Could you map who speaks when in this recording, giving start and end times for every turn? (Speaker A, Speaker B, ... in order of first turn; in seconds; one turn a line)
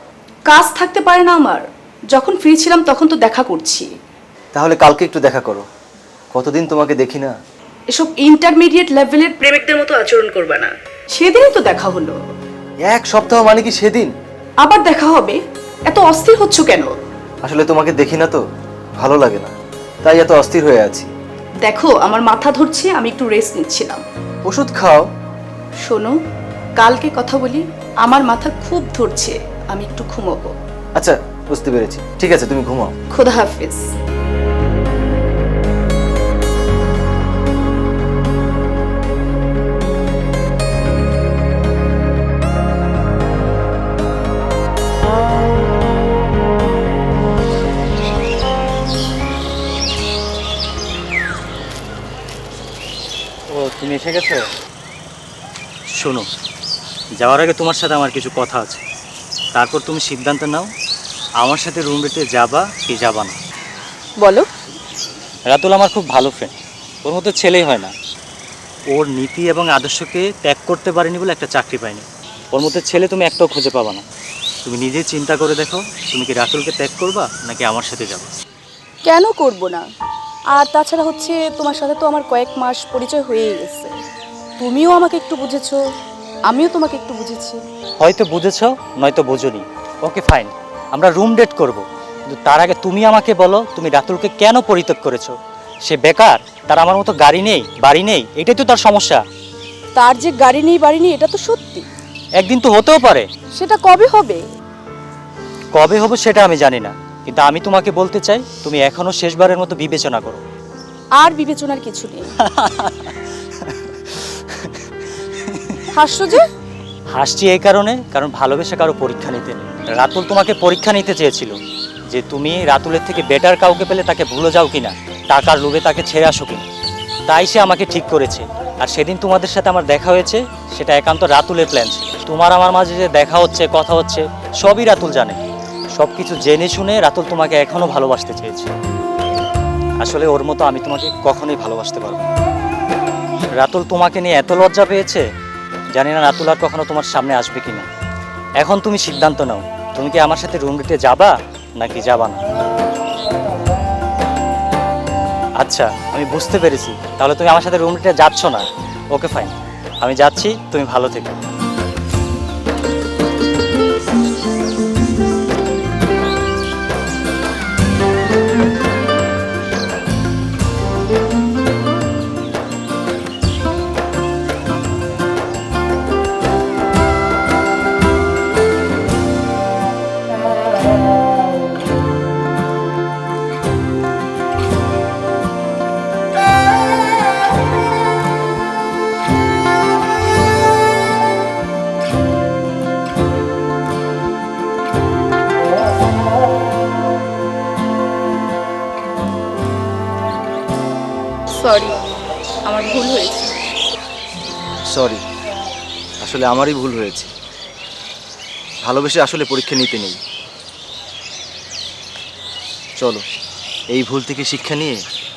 Speaker A: 0.5-3.9
Speaker B: 4.5-5.7
Speaker B: 6.3-7.3
Speaker A: 7.9-12.2
Speaker B: 12.9-14.1
Speaker A: 14.6-16.9
Speaker B: 17.4-18.4
Speaker B: 19.0-21.1
Speaker A: 21.6-24.0
Speaker B: 24.4-25.0
Speaker A: 25.9-26.2
Speaker A: 26.8-30.6
Speaker B: 31.0-32.9
Speaker A: 33.1-33.9
Speaker C: 53.5-54.4
Speaker C: 56.0-56.3
Speaker C: 57.2-58.8
Speaker C: 59.5-60.7
Speaker C: 61.4-63.4
Speaker A: 64.2-64.5
Speaker C: 65.5-67.9
Speaker C: 68.9-74.0
Speaker C: 74.7-78.3
Speaker A: 79.1-79.8
Speaker A: 80.5-84.0
Speaker A: 84.6-85.8
Speaker A: 86.5-87.6
Speaker C: 88.0-99.2
Speaker A: 100.0-101.9
Speaker C: 102.4-103.3
Speaker A: 103.5-104.4
Speaker C: 105.7-110.4
Speaker A: 111.2-112.3
Speaker C: 112.4-114.8
Speaker C: 115.4-115.9
Speaker A: 115.9-116.5
Speaker C: 117.2-121.6
Speaker C: 122.1-126.6
Speaker C: 127.3-135.4
Speaker C: 136.0-138.7
Speaker C: 140.0-142.3
Speaker C: 143.6-145.2
Speaker C: 145.9-147.9
Speaker C: 148.6-152.4
Speaker C: 155.6-161.4
Speaker A: 201.5-201.9
Speaker A: 202.7-203.5
Speaker B: 204.9-205.2
Speaker B: 206.2-207.3
Speaker B: 208.9-210.2
Speaker B: 213.9-215.0